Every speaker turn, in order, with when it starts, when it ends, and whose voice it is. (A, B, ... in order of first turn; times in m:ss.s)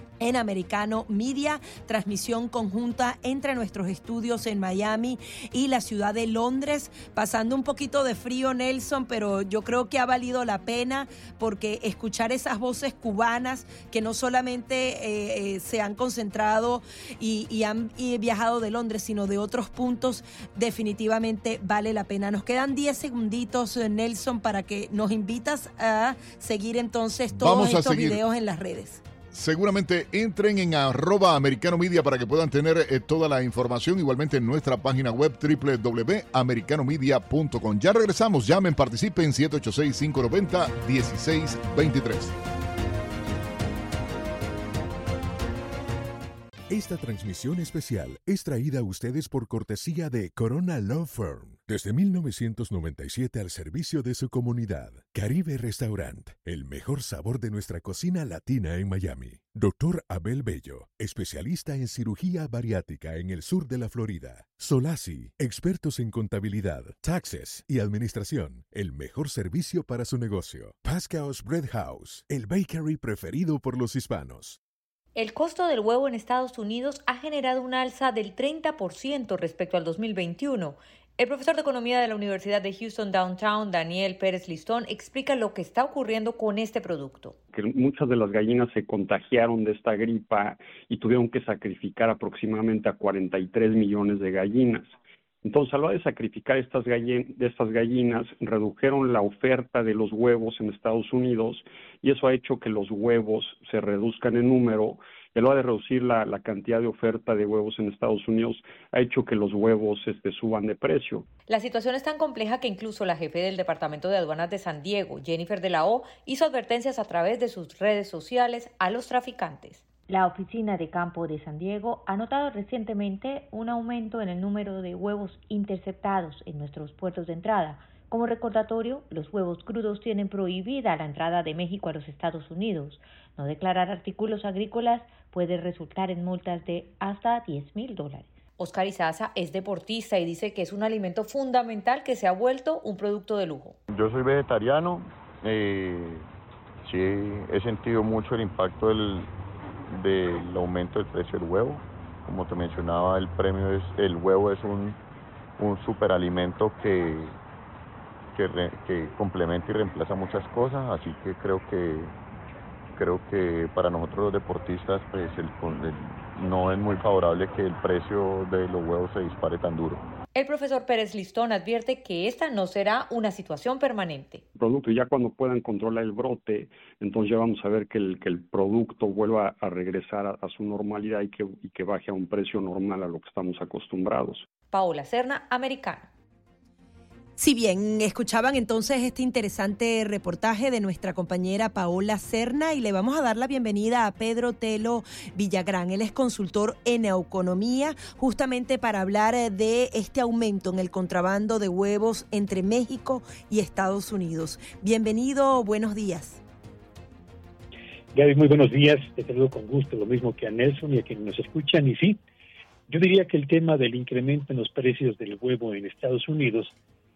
0:00.2-0:29.0 A
0:27.3-0:28.2 B
0:29.3-0:42.3 B
0:46.7-1:14.6 C
1:15.2-1:27.4 D
1:27.5-1:34.9 E
1:35.4-1:51.3 E
1:51.5-2:23.8 D
2:23.9-2:26.3 F
2:26.8-2:29.3 F
2:29.9-2:35.0 F
2:35.6-2:37.4 F
2:38.3-2:42.2 F
2:42.9-2:50.0 F
2:50.3-2:54.4 D
2:54.5-3:04.4 E
3:04.7-3:06.1 D
3:07.4-3:26.4 A
3:28.1-3:32.2 G
3:32.9-3:36.7 G